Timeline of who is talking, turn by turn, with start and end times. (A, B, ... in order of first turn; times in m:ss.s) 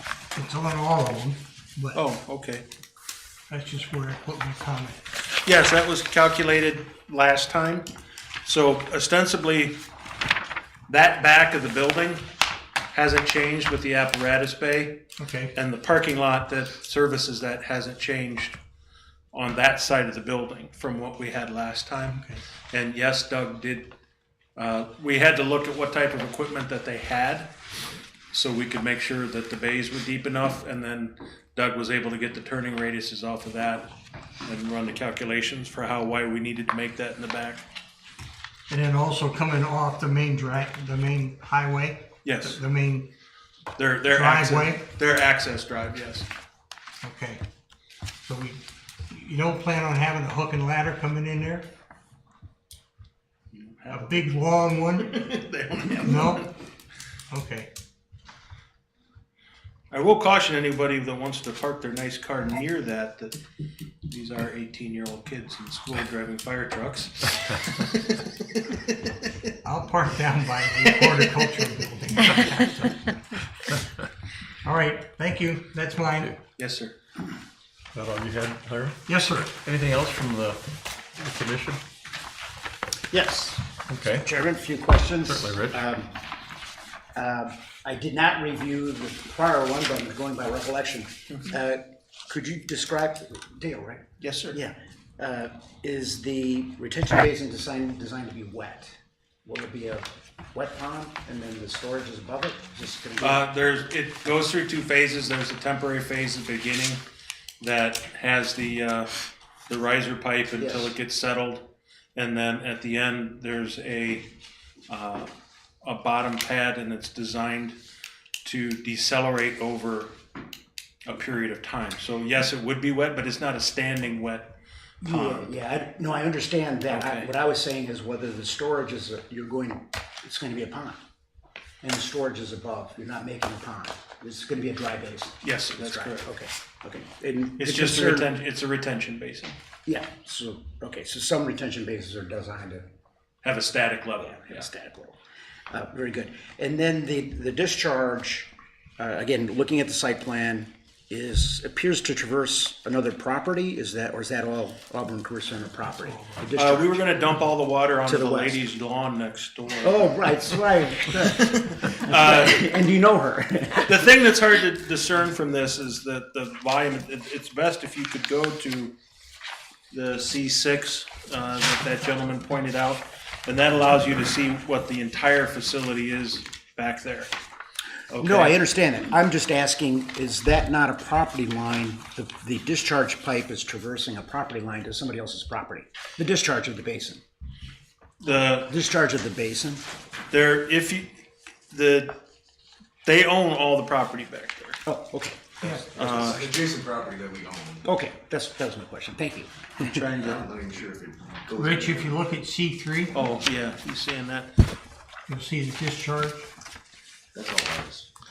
0:00.3-0:02.0 A
0:01.9-0:02.6 B
0:03.5-0:05.0 A
0:05.5-0:07.9 B
0:08.4-0:09.8 B
0:10.9-0:12.3 B
0:12.9-0:15.0 B
0:15.2-0:15.5 A
0:15.5-0:18.6 B
0:19.3-0:22.2 B
0:22.1-0:22.4 A
0:22.7-0:23.9 B
0:24.6-0:27.5 B
0:28.3-0:33.9 B
0:34.5-0:37.6 B
0:38.7-0:43.1 A
0:42.2-0:42.6 B
0:43.8-0:46.3 B
0:44.1-0:44.9 A
0:47.0-0:47.4 A
0:48.2-0:51.7 A
0:53.5-0:54.4 B
0:53.9-0:55.2 A
0:54.9-0:56.5 B
0:56.0-0:56.5 A
0:57.3-0:57.7 A
0:59.9-1:03.4 B
1:04.1-1:08.9 B
1:09.6-1:13.1 A
1:10.9-1:11.3 B
1:14.6-1:16.3 A
1:16.6-1:16.9 B
1:17.9-1:19.0 C
1:19.1-1:19.6 A
1:19.5-1:20.6 C
1:21.2-1:21.8 C
1:23.1-1:23.6 D
1:23.9-1:24.3 C
1:24.2-1:26.2 D
1:25.3-1:25.8 C
1:27.2-1:38.9 D
1:34.2-1:34.6 B
1:39.4-1:43.4 D
1:43.2-1:47.0 B
1:47.6-1:49.1 B
1:49.7-1:54.3 B
1:50.6-1:50.9 D
1:54.9-1:57.8 B
1:58.4-2:00.2 B
2:01.1-2:05.5 B
2:05.0-2:11.0 D
2:06.9-2:07.3 B
2:11.8-2:18.3 D
2:15.4-2:16.3 B
2:17.6-2:19.6 B
2:19.9-2:22.8 D
2:23.4-2:24.7 B
2:24.2-2:25.2 D
2:25.7-2:37.0 D
2:36.1-2:36.4 A
2:36.6-2:40.6 B
2:38.0-2:38.6 D
2:39.8-2:43.9 D
2:41.1-2:42.6 B
2:43.8-2:48.9 B
2:49.9-2:57.3 B
2:58.1-2:58.6 B
2:58.2-3:07.2 D
3:08.2-3:08.7 B
3:08.7-3:09.8 D
3:10.3-3:11.2 B
3:11.7-3:12.2 B
3:13.0-3:14.8 B
3:14.9-3:15.5 D
3:15.6-3:15.9 A
3:15.7-3:17.9 E
3:15.9-3:16.6 B
3:17.8-3:20.0 D
3:19.8-3:20.6 B
3:20.2-3:22.1 E
3:21.6-3:23.1 A
3:23.1-3:24.5 B
3:25.3-3:26.5 A
3:27.3-3:28.1 E